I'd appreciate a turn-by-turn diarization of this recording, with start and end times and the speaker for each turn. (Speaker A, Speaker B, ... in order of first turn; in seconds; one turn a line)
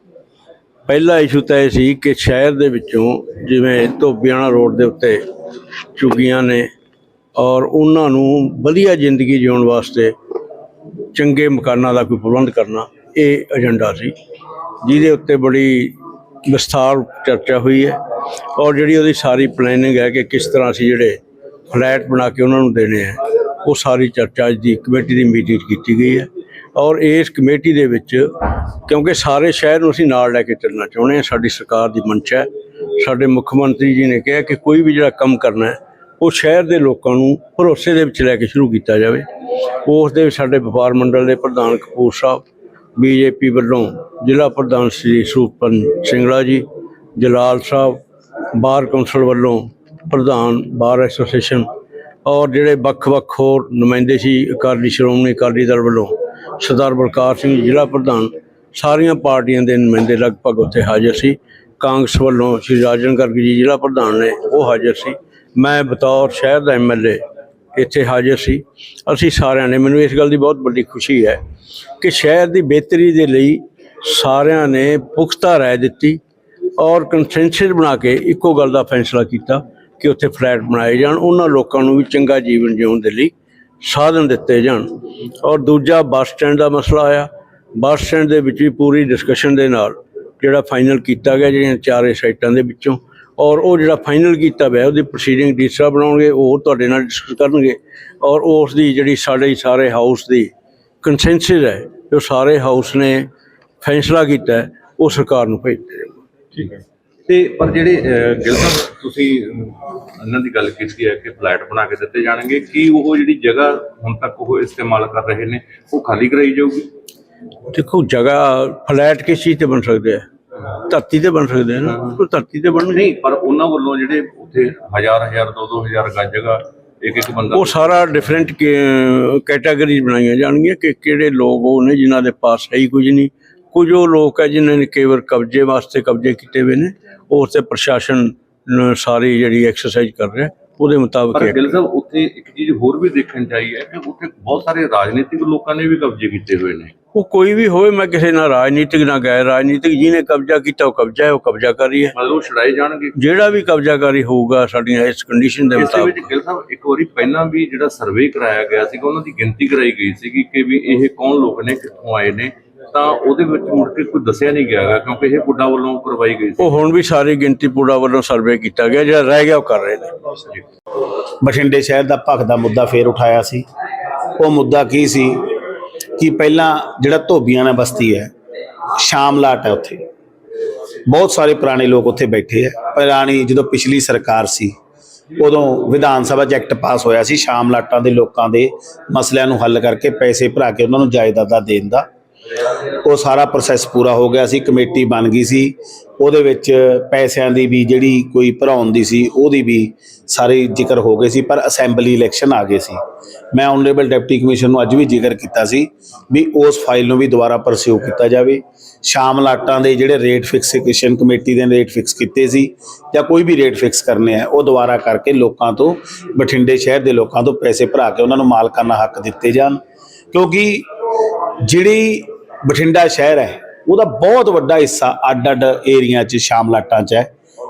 Speaker A: 0.9-5.2
Speaker A: 6.0-6.7
Speaker A: 7.3-10.1
Speaker A: 11.1-14.1
Speaker A: 14.8-15.9
Speaker A: 16.4-18.0
Speaker A: 18.6-21.2
Speaker A: 21.7-28.3
Speaker A: 28.9-39.2
Speaker A: 39.8-42.4
Speaker A: 43.0-46.6
Speaker A: 47.2-48.0
Speaker A: 48.5-51.7
Speaker A: 52.2-67.2
Speaker A: 67.7-71.4
Speaker A: 72.0-76.2
Speaker A: 76.8-100.5
Speaker A: 101.0-103.2
Speaker A: 103.8-106.1
Speaker B: 107.3-116.9
Speaker A: 117.7-120.2
Speaker A: 120.8-123.0
Speaker B: 122.9-128.0
Speaker A: 127.5-141.7
Speaker B: 141.3-146.9
Speaker A: 147.1-152.1
Speaker B: 152.1-153.1
Speaker A: 153.1-156.3
Speaker B: 155.8-166.7
Speaker A: 166.6-170.3
Speaker C: 171.4-173.6
Speaker C: 174.4-175.5
Speaker C: 176.2-178.3
Speaker C: 179.0-180.0
Speaker C: 181.1-184.7
Speaker C: 185.4-192.1
Speaker C: 193.0-203.0
Speaker C: 203.5-219.8
Speaker C: 220.3-220.8
Speaker C: 221.6-227.3